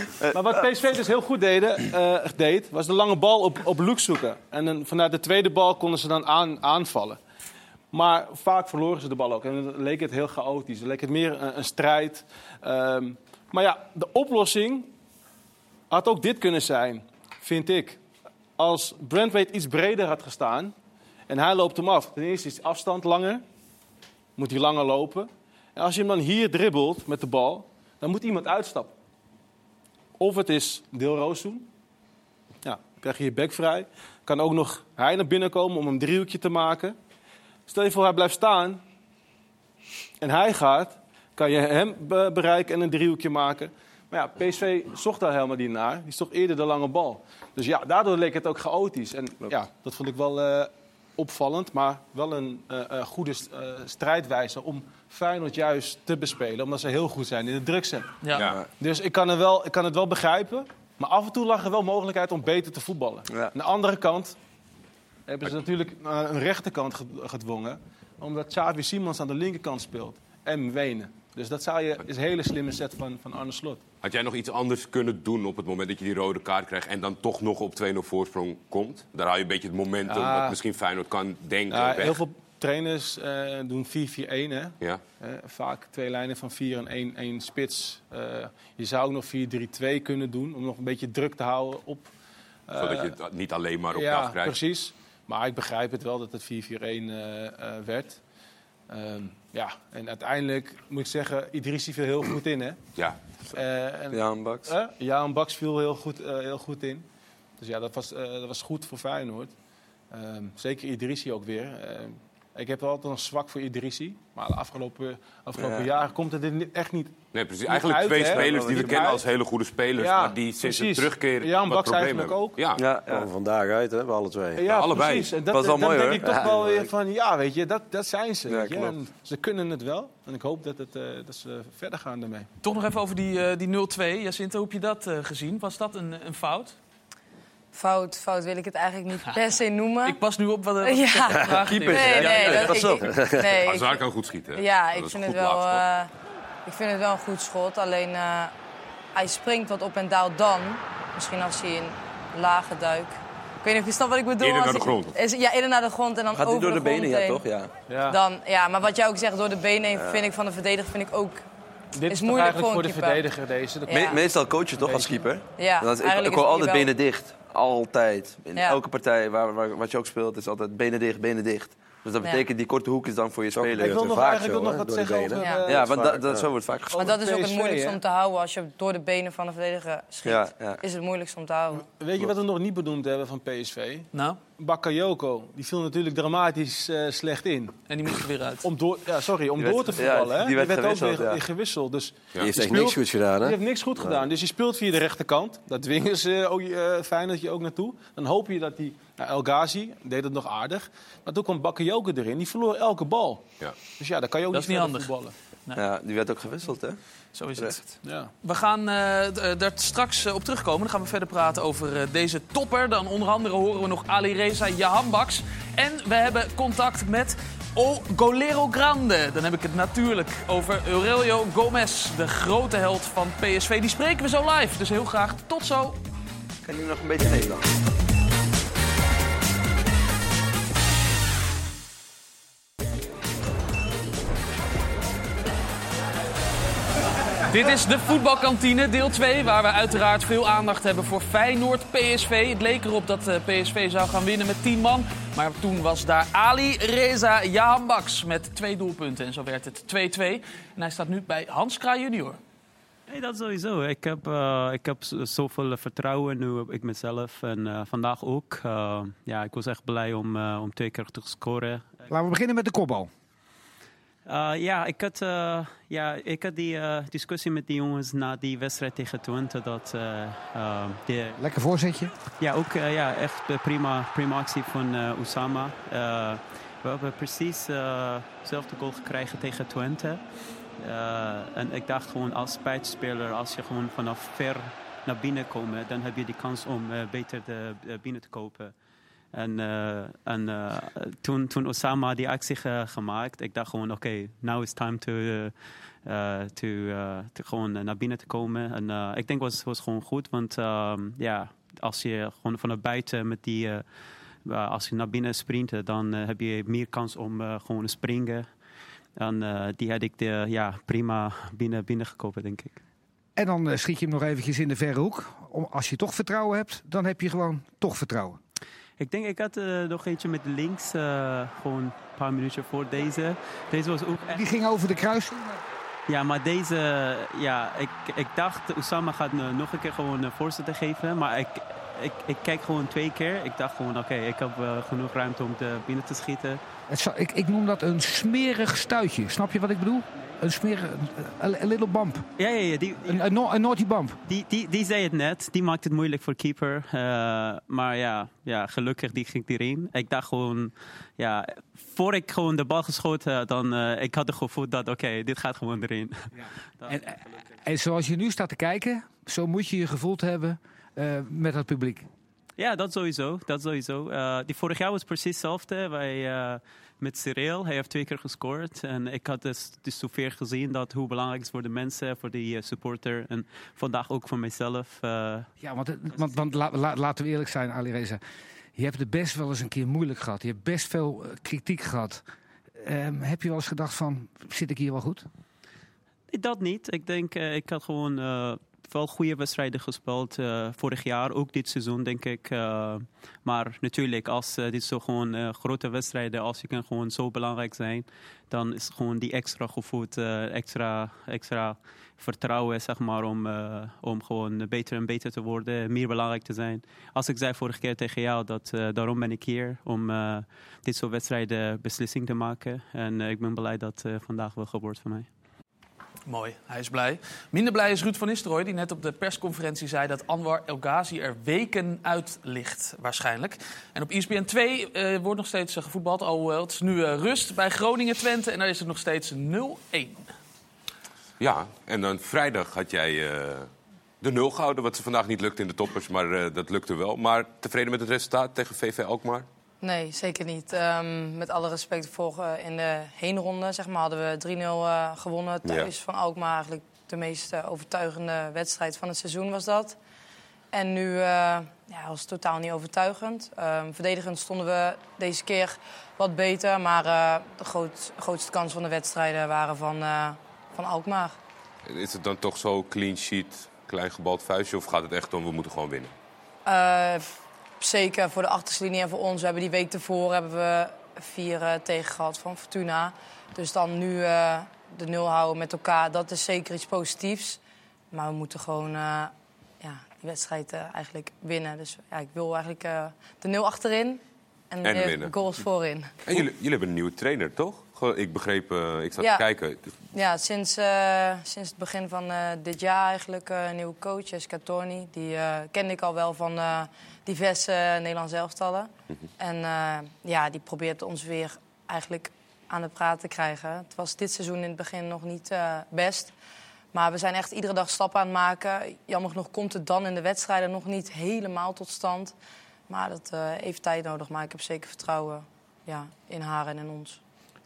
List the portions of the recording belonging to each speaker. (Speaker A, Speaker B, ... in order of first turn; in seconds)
Speaker A: 0.3-7.2, 7.9-14.9, 15.9-18.0, 18.6-20.7, 21.3-23.4, 24.4-28.9, 30.2-31.7, 32.6-37.0, 37.7-38.8, 40.2-58.2, 58.8-64.4, 65.3-73.8, 80.1-80.6, 81.7-92.1, 92.7-93.2, 93.9-98.2, 98.9-102.8, 103.5-107.0, 107.6-109.5, 110.1-119.2, 120.0-122.6, 124.6-132.5, 157.9-158.2, 161.9-165.3, 173.8-176.2, 176.9-178.0, 182.0-187.8, 188.6-203.4, 204.0-205.3, 208.0-208.3
Speaker B: 58.2-58.5, 132.6-136.8, 140.1-142.8, 184.1-184.4, 187.9-188.7, 204.5-205.1, 207.3-226.0, 237.5-252.4, 416.3-430.3
Speaker C: 58.4-58.6, 74.0-82.2, 92.8-94.6, 117.3-122.8, 124.7-125.3, 143.6-145.8, 154.4-155.1, 431.4-433.7, 434.2-439.5, 445.6-445.9, 461.9-466.1, 484.8-485.6, 486.3-489.9
Speaker D: 104.1-104.7, 115.6-115.9, 118.3-119.0, 122.8-123.3, 125.5-126.6, 128.5-128.9, 141.7-143.1, 156.3-157.7, 163.9-174.0, 175.7-177.1, 180.2-180.8, 189.6-191.4, 205.7-207.0, 207.6-207.9, 226.6-227.7
Speaker E: 123.0-124.7, 126.2-126.9, 143.0-143.5, 173.5-176.5, 192.4-194.2
Speaker F: 137.7-140.2, 140.8-146.1, 146.7-148.5, 149.1-157.4, 158.1-161.4, 162.1-163.2, 163.9-164.2, 165.6-166.9, 175.4-175.6, 176.9-181.9, 439.8-450.0, 450.7-461.4, 466.7-467.3, 467.8-477.6, 478.1-486.4, 489.2-489.4, 490.1-506.3, 506.9-512.4, 512.9-517.2
Speaker G: 253.1-261.9, 264.3-271.4, 272.4-280.2, 280.8-288.8, 289.3-295.5, 296.1-303.8, 304.4-308.5, 309.2-312.8, 319.0-324.4, 326.1-336.6, 342.4-343.2, 344.3-357.0, 362.6-375.5, 386.3-415.3
Speaker H: 262.1-263.1, 271.4-272.1, 313.4-318.4, 324.3-325.6, 336.9-342.2, 343.0-344.2, 356.4-362.1, 375.6-378.2, 378.8-382.2, 382.8-385.3